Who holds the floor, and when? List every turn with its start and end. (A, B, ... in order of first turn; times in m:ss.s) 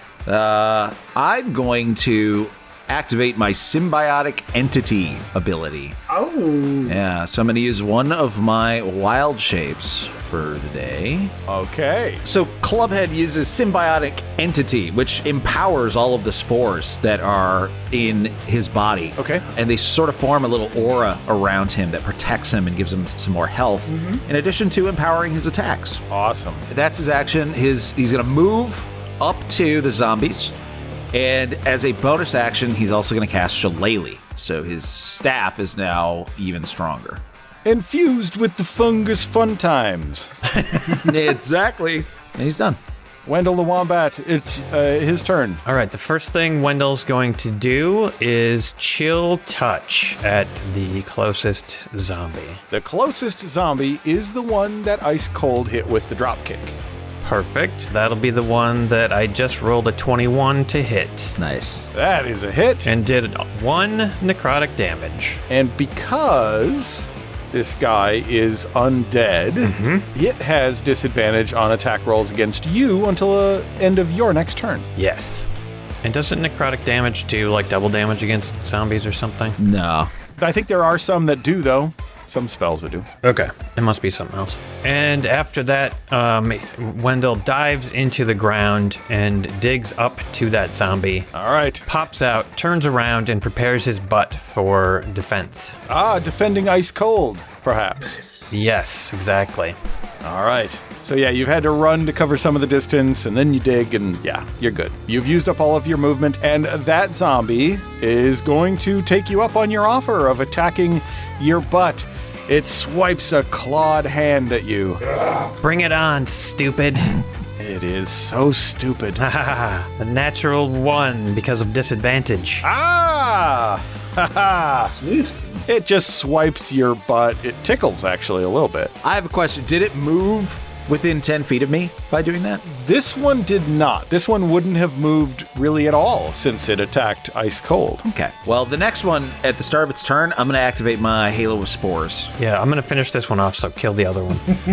0:00.2-0:06.0 A
0:06.1-0:07.0 B
0:06.8-0:11.3 A
0:11.5-0:12.2 C
0:12.2-0:26.0 A
0:19.2-0:19.4 C
0:23.9-0:24.2 B
0:26.1-0:26.6 C
0:26.7-0:30.5 A
0:31.1-0:37.2 A
0:37.6-0:40.3 C
0:41.0-0:42.8 A
0:43.2-0:45.6 C
0:45.6-0:52.6 D
0:52.7-0:56.7 C
0:57.2-1:01.3 D
1:01.4-1:01.9 A
1:01.9-1:02.9 C
1:02.8-1:05.4 D
1:05.5-1:14.9 C
1:09.6-1:10.0 D
1:15.0-1:15.5 D
1:16.0-1:19.6 D
1:19.6-1:20.1 A
1:20.4-1:23.0 C
1:23.2-1:31.3 D
1:31.3-1:31.8 C
1:31.8-1:35.8 D
1:35.9-1:38.2 C
1:38.0-1:38.8 B
1:38.5-1:39.8 D
1:40.2-1:55.0 C
1:55.6-1:57.1 D
1:57.6-1:59.2 C
1:59.2-2:02.6 D
2:02.6-2:04.9 C
2:04.8-2:05.4 B
2:05.6-2:08.9 C
2:09.0-2:12.6 A
2:12.6-2:18.0 C
2:18.0-2:22.3 A
2:22.4-2:24.6 D